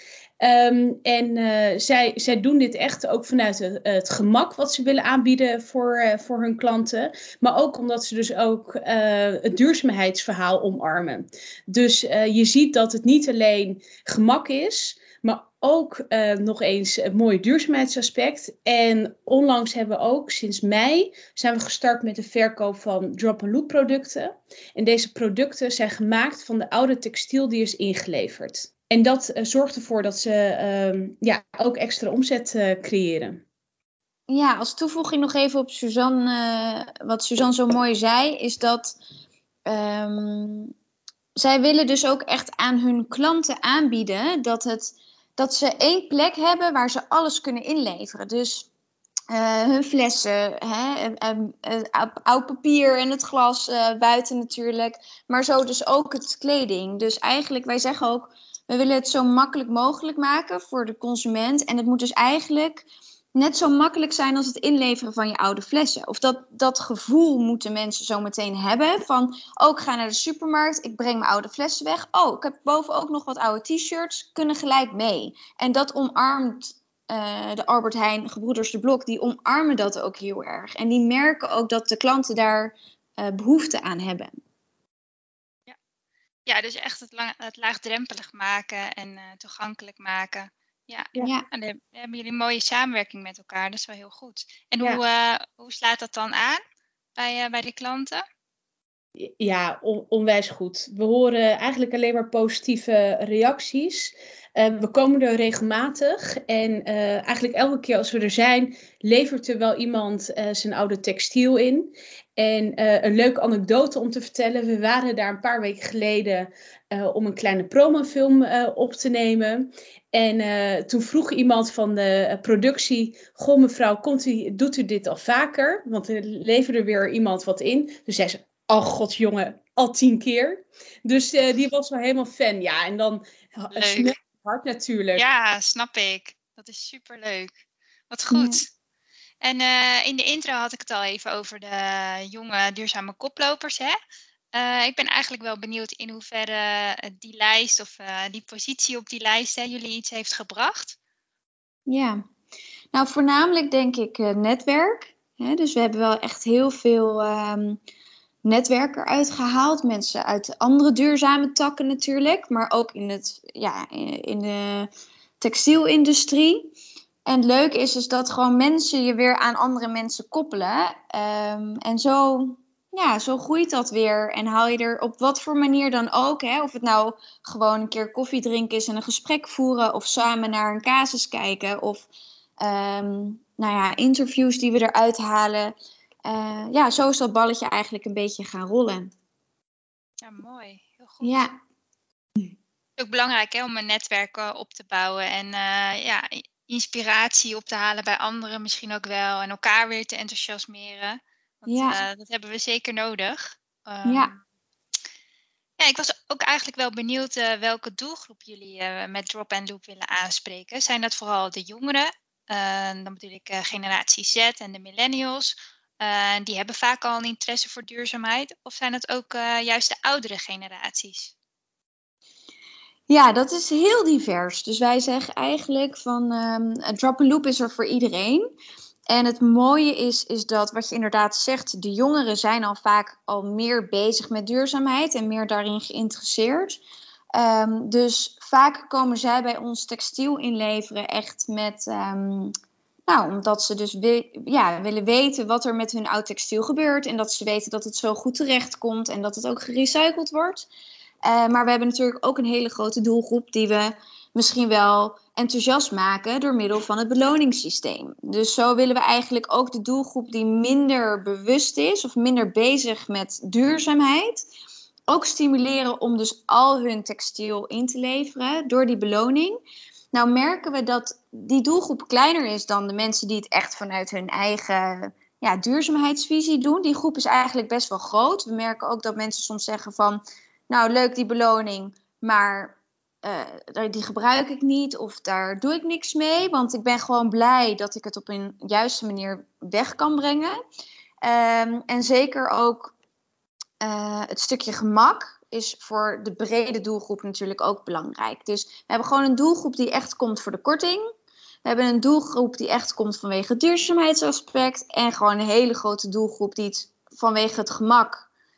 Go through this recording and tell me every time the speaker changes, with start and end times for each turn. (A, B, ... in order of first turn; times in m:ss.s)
0:00.4-0:33.4 A
0:34.3-0:39.0 B
0:39.6-0:40.7 B
0:41.4-0:48.7 B
0:49.3-1:24.4 B
1:26.4-1:36.6 C
1:31.2-1:31.5 B
1:37.2-1:38.2 C
1:39.2-2:15.2 A
2:13.7-2:14.1 C
2:15.2-2:17.6 C
2:18.1-2:18.7 C
2:18.3-2:18.6 B
2:19.4-2:24.0 C
2:24.5-2:31.0 C
2:31.9-2:32.2 B
2:32.9-2:37.8 B
2:38.4-2:44.9 B
2:45.4-2:46.7 B
2:47.2-3:02.1 B
3:02.6-3:05.7 B
3:06.2-3:09.1 B
3:10.2-3:11.5 C
3:11.2-3:11.6 B
3:13.0-3:24.4 C
3:21.7-3:22.0 B
3:24.0-3:24.3 B
3:25.8-3:41.3 C
3:43.1-3:48.5 B
3:49.1-3:56.8 B
3:57.3-4:02.5 B
4:03.1-4:10.7 B
4:11.2-4:24.4 B
4:25.1-4:29.6 B
4:30.1-4:50.6 B
4:51.2-4:52.9 B
4:53.8-5:01.1 B
5:01.6-5:08.3 B